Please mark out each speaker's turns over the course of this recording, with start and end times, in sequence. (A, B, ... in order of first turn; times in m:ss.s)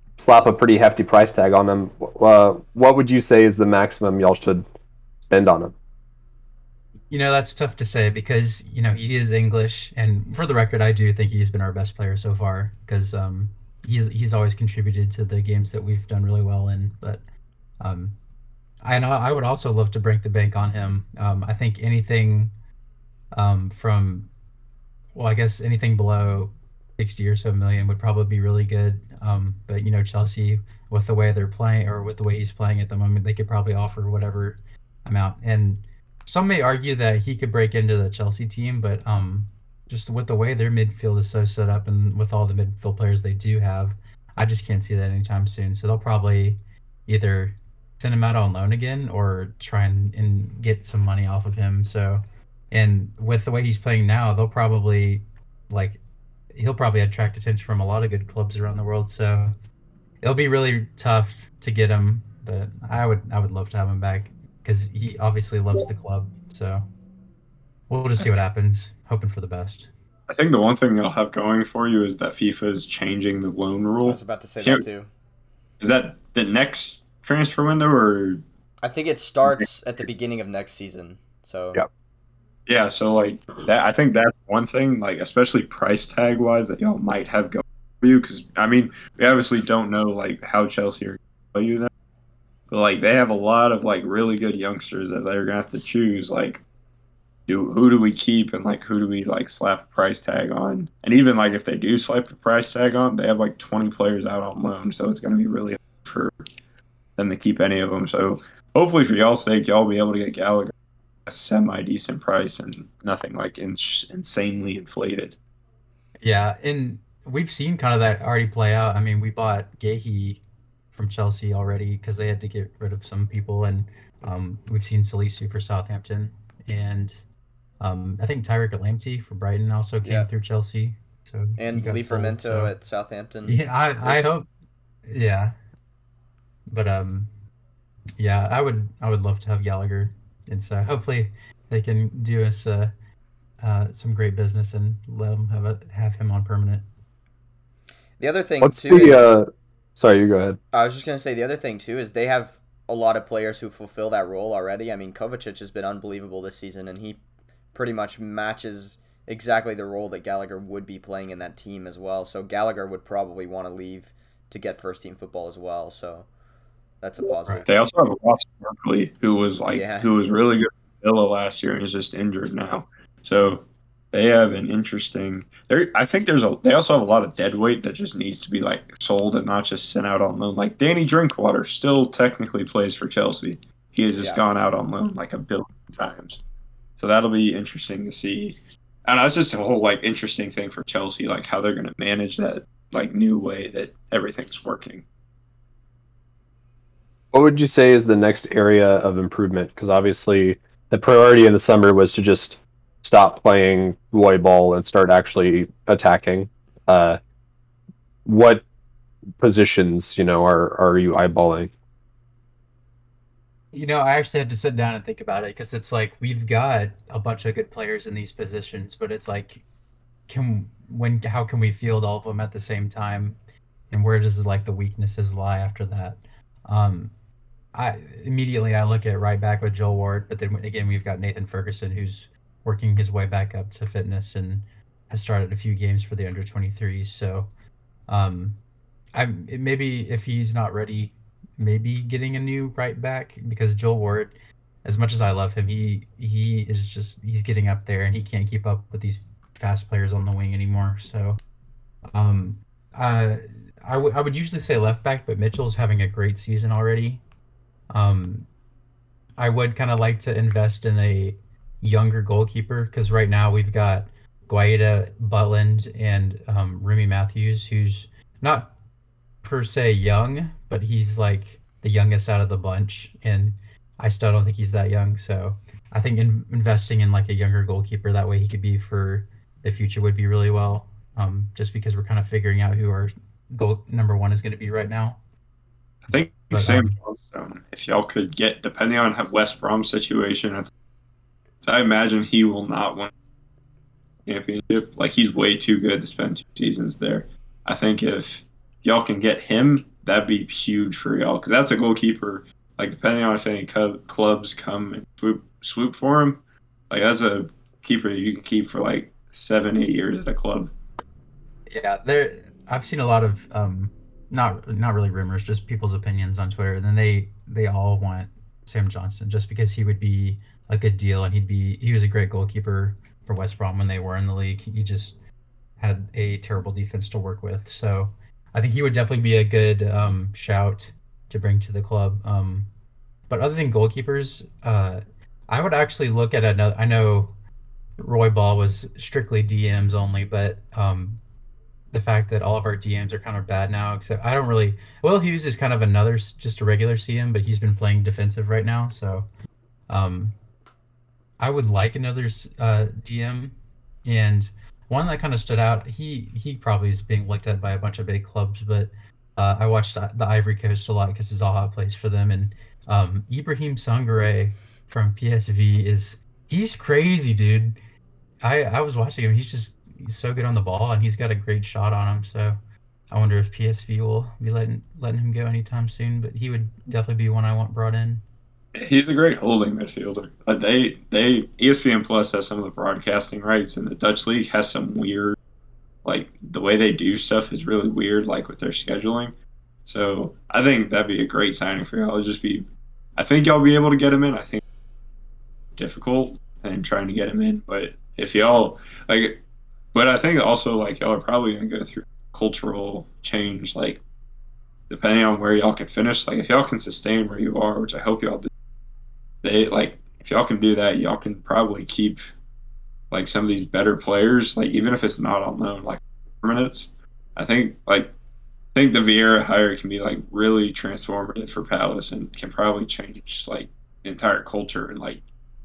0:00.2-0:04.6 A
0:05.3-0:05.7 A
0:07.1-0:17.2 B
0:17.8-0:18.2 B
0:18.8-0:22.5 B
0:23.3-0:24.3 B
0:25.1-0:56.0 B
0:56.6-0:59.6 B
1:00.2-1:06.8 B
1:07.9-1:09.9 B
1:10.3-1:14.8 C
1:14.0-1:15.1 D
1:15.8-1:18.4 C
1:18.8-1:21.8 D
1:22.7-1:31.9 C
1:32.7-1:36.6 C
1:37.5-1:46.3 C
1:47.2-1:50.7 C
1:51.3-1:55.4 C
1:56.2-2:00.4 B
2:00.9-2:07.2 B
2:07.8-2:12.8 B
2:10.0-2:10.3 D
2:11.6-2:14.3 D
2:13.5-2:14.5 B
2:15.1-2:15.6 B
2:16.7-2:17.3 B
2:18.2-2:22.9 B
2:23.6-2:26.8 B
2:28.2-2:29.4 D
2:28.6-2:30.6 A
2:30.7-2:37.2 D
2:37.7-2:46.3 D
2:47.0-2:47.7 D
2:47.7-3:06.4 C
2:49.7-2:50.1 D
3:07.0-3:15.0 C
3:17.3-3:27.2 A
3:28.3-3:28.6 A
3:29.4-3:31.7 A
3:33.7-3:39.6 B
3:40.3-3:43.4 B
3:43.9-3:47.1 B
3:47.7-3:57.5 B
3:58.1-3:58.6 B
3:59.1-4:11.4 B
4:12.1-4:17.2 B
4:17.9-4:18.5 B
4:19.4-4:28.7 B
4:29.4-4:45.2 B
4:46.1-4:50.7 C
4:46.5-4:47.0 B
4:51.6-4:53.1 C
4:54.3-5:10.7 C
5:11.7-5:25.2 B
5:25.8-5:32.7 B
5:33.3-5:37.3 B
5:38.0-5:41.2 B
5:41.9-5:49.3 B
5:49.9-5:50.4 B
5:51.4-6:07.8 B
6:08.4-6:12.6 B
6:13.1-6:18.2 B
6:18.8-6:25.4 C
6:26.0-6:29.4 C
6:29.9-6:34.6 C
6:35.8-6:39.4 C
6:39.9-6:44.0 C
6:44.9-6:48.5 C
6:49.4-6:52.2 C
6:53.1-6:58.1 C
6:58.7-7:05.2 C